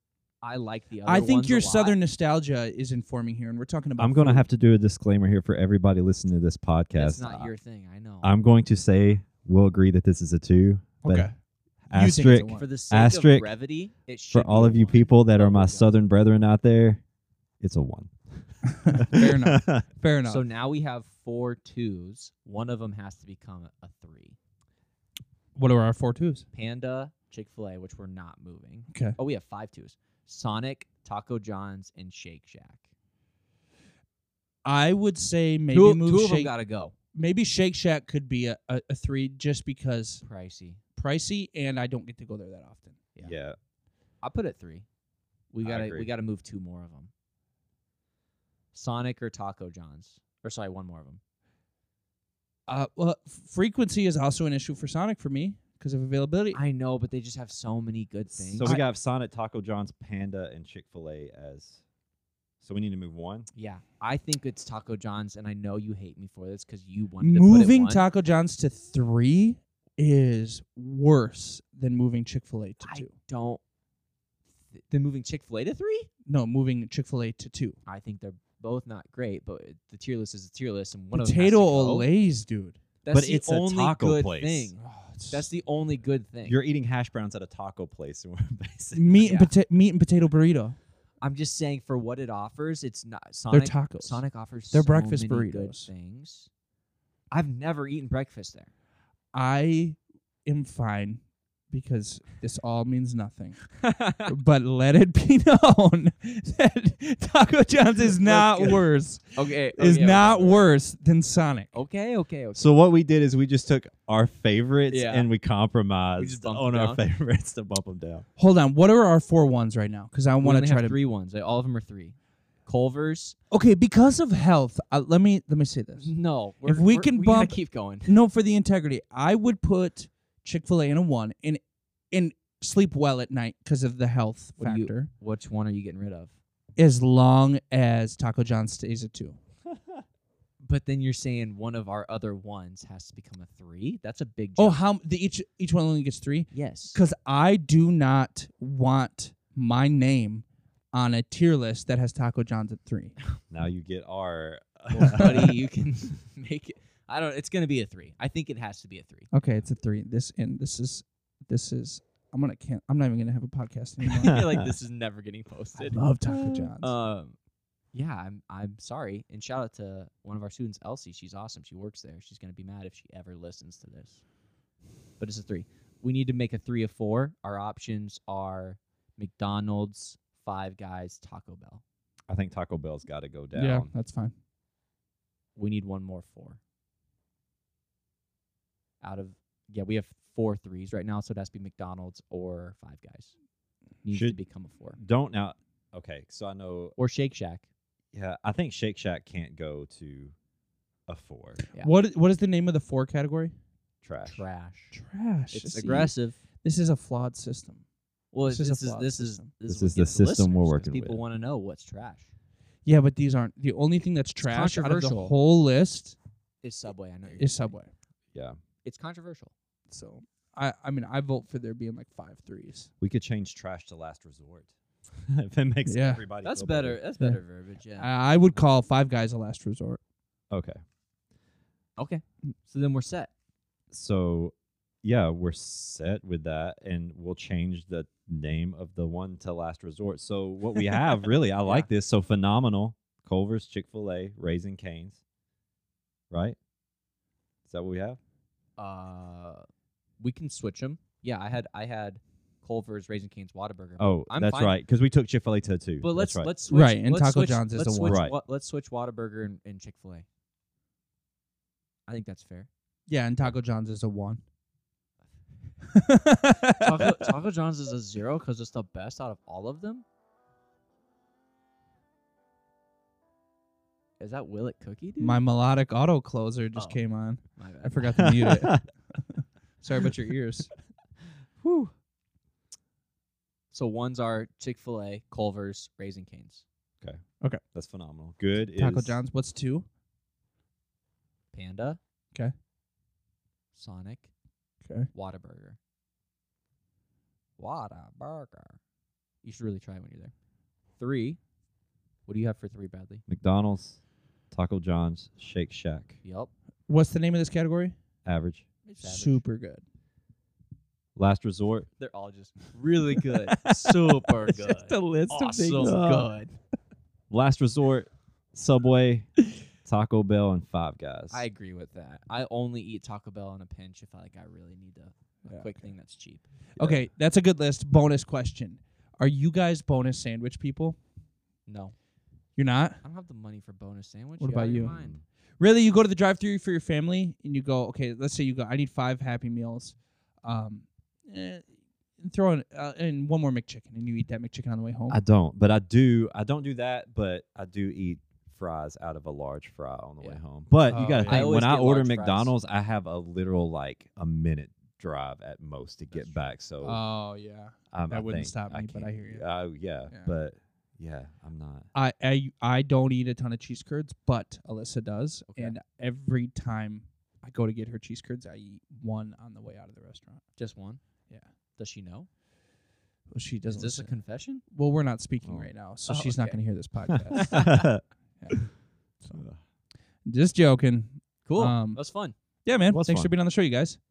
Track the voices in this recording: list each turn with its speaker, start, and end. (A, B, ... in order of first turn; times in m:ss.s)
0:00.4-0:02.0 A
0:01.0-0:04.4 B
0:04.0-0:07.5 C
0:07.0-0:08.4 A
0:08.2-0:11.3 C
0:11.0-0:11.3 B
0:11.9-0:13.5 C
0:11.9-0:12.7 B
0:12.5-0:15.9 A
0:14.3-0:17.0 C
0:17.6-0:19.9 C
0:18.6-0:20.4 B
0:20.2-0:24.4 A
0:25.6-0:26.4 B
0:26.5-0:32.9 A
0:28.9-0:29.2 B
0:34.6-0:36.5 B
0:35.7-0:36.9 A
0:37.1-0:40.2 B
0:40.2-0:40.8 A
0:41.0-0:43.0 B
0:43.2-0:43.6 C
0:44.2-0:44.9 A
0:45.5-0:47.1 A
0:45.6-0:46.1 C
0:48.7-0:51.2 A
0:52.7-0:56.6 B
0:56.5-0:58.8 A
0:58.5-1:01.8 C
0:58.6-0:58.9 B
1:02.6-1:03.5 C
1:03.5-1:08.0 A
1:07.2-1:13.1 B
1:12.8-1:13.6 A
1:14.7-1:16.1 A
1:16.3-1:17.8 B
1:17.9-1:22.1 A
1:21.1-1:22.8 B
1:23.0-1:26.6 A
1:23.1-1:24.7 C
1:24.8-1:25.4 B
1:26.4-1:29.3 C
1:28.9-1:30.8 B
1:29.2-1:29.5 A
1:31.2-1:36.5 A
1:33.5-1:35.9 B
1:37.3-1:38.7 A
1:39.3-1:41.2 B
1:41.7-1:43.7 B
1:43.8-1:44.3 A
1:44.3-1:51.7 B
1:48.2-1:48.8 C
1:49.4-1:50.6 A
1:51.7-1:52.8 A
1:52.6-1:58.3 C
1:54.9-1:55.3 A
1:56.2-1:57.0 A
1:58.4-2:01.0 B
2:00.4-2:03.4 A
2:03.5-2:11.6 B
2:06.0-2:08.2 A
2:12.1-2:15.1 B
2:14.6-2:16.4 A
2:16.8-2:19.4 B
2:19.7-2:20.0 C
2:20.6-2:24.8 A
2:24.6-2:33.2 B
2:26.5-2:27.0 A
2:33.5-2:35.6 C
2:34.9-2:39.3 A
2:39.3-2:44.4 B
2:44.2-2:46.1 A
2:44.2-2:44.7 C
2:45.8-2:46.9 B
2:46.8-2:47.4 A
2:47.9-2:54.2 A
2:55.2-3:01.8 A
3:02.3-3:03.9 C
3:03.6-3:04.3 B
3:05.6-3:06.6 A
3:09.0-3:13.3 A
3:14.0-3:15.0 A
3:14.1-3:14.4 C
3:15.0-3:16.9 C
3:17.0-3:17.7 A
3:18.1-3:20.4 C
3:21.1-3:21.6 C
3:21.8-3:23.5 B
3:24.0-3:24.4 C
3:24.2-3:25.0 A
3:24.9-3:27.8 B
3:25.5-3:26.4 A
3:28.3-3:32.3 A
3:28.4-3:29.5 B
3:29.7-3:31.2 C
3:32.8-3:36.2 B
3:34.4-3:35.3 A
3:36.6-3:37.8 A
3:37.4-3:37.9 B
3:38.8-3:39.5 A
3:39.9-3:42.9 B
3:43.0-3:47.0 C
3:45.9-3:46.2 B
3:46.4-3:48.1 A
3:48.0-3:50.0 B
3:50.5-3:50.8 C
3:52.0-3:53.3 A
3:53.9-4:05.2 C
4:01.6-4:01.9 A
4:06.3-4:06.6 C
4:07.6-4:08.2 C
4:08.8-4:09.6 A
4:10.2-4:14.8 A
4:14.0-4:16.5 C
4:16.0-4:20.3 A
4:16.7-4:18.2 B
4:18.0-4:18.4 C
4:22.1-4:22.7 A
4:23.1-4:24.4 B
4:25.9-4:27.3 B
4:26.8-4:30.0 A
4:34.2-4:35.4 A
4:35.2-4:40.7 B
4:36.8-4:37.0 A
4:37.6-4:38.2 A
4:38.2-4:38.8 C
4:41.6-4:41.9 C
4:43.7-4:46.6 A
4:47.0-4:49.2 C
4:48.8-4:49.9 B
4:51.5-4:52.0 A
4:53.7-4:54.3 A
4:55.1-4:55.8 A
4:57.6-4:58.8 A
4:59.4-5:00.3 A
5:01.0-5:01.4 A
5:02.3-5:03.2 A
5:03.3-5:04.0 C
5:04.5-5:06.2 C
5:06.2-5:06.5 A
5:06.9-5:07.9 B
5:08.2-5:08.6 C
5:08.8-5:09.4 A
5:09.0-5:09.8 B
5:11.2-5:11.9 C
5:12.0-5:16.6 A
5:13.5-5:16.2 B
5:15.8-5:16.3 C
5:17.3-5:21.4 C
5:21.3-5:26.5 A
5:25.5-5:25.9 B
5:26.8-5:31.0 B
5:26.8-5:27.1 C
5:31.7-5:31.9 A
5:32.6-5:33.0 B
5:33.0-5:35.2 A
5:34.4-5:34.9 B
5:34.9-5:35.2 C
5:35.6-5:41.6 B
5:42.2-5:45.2 B
5:45.1-5:57.0 C
5:50.2-5:52.5 A
5:50.9-5:51.5 B
5:56.1-5:56.4 A
5:56.8-5:59.5 B
5:57.9-6:01.9 C
6:01.9-6:10.4 B
6:05.5-6:05.8 A
6:10.6-6:11.0 A
6:11.8-6:12.3 A
6:13.3-6:17.7 B
6:13.7-6:14.6 A
6:15.4-6:15.7 C
6:16.1-6:16.6 A
6:17.1-6:18.5 C
6:17.3-6:17.8 A
6:18.4-6:19.4 B
6:19.3-6:19.6 C
6:20.3-6:22.0 B
6:21.4-6:22.4 A
6:22.6-6:24.0 B
6:22.9-6:23.3 C